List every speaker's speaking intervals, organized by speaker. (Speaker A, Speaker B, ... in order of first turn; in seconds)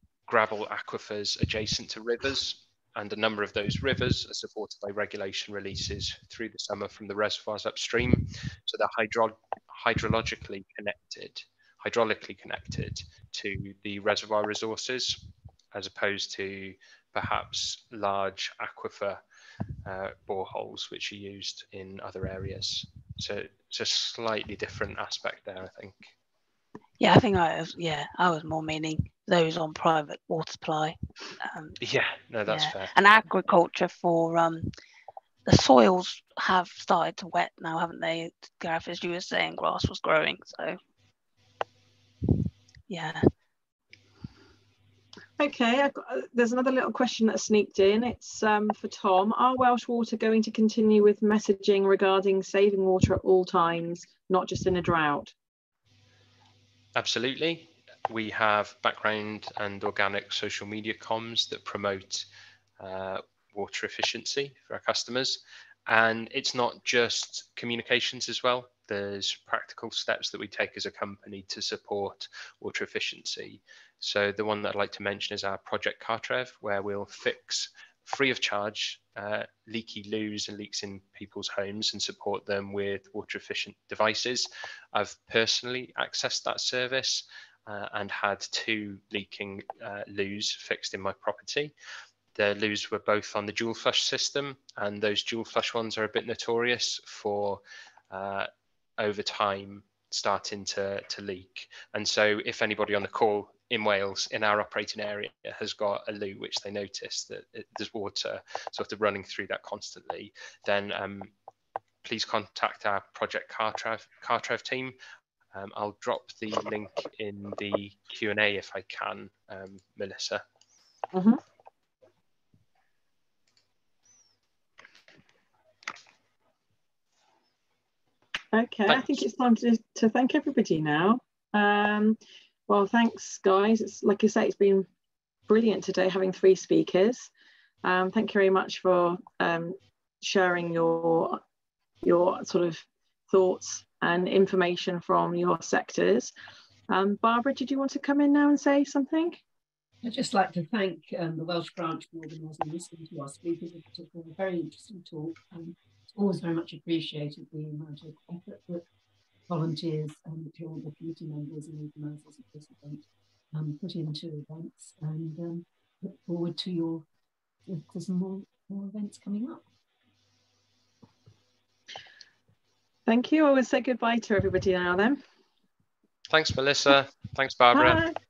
Speaker A: 0.3-15.2, 15.7-19.2, 19.8-26.1, 31.8-32.9, 57.0-62.2, 62.8-91.7, 92.3-111.3, 112.0-115.0, 115.5-120.4, 128.9-129.2, 176.3-178.0
Speaker B: 27.0-31.8, 32.5-34.7, 35.5-40.8, 42.9-43.3
Speaker C: 45.4-55.3, 121.1-121.4, 128.5-134.8, 135.5-137.3, 137.8-141.4, 142.0-146.3, 146.9-149.4, 173.1-175.2, 177.7-178.1
Speaker D: 150.0-158.8, 159.5-163.0, 163.5-167.0, 167.7-169.6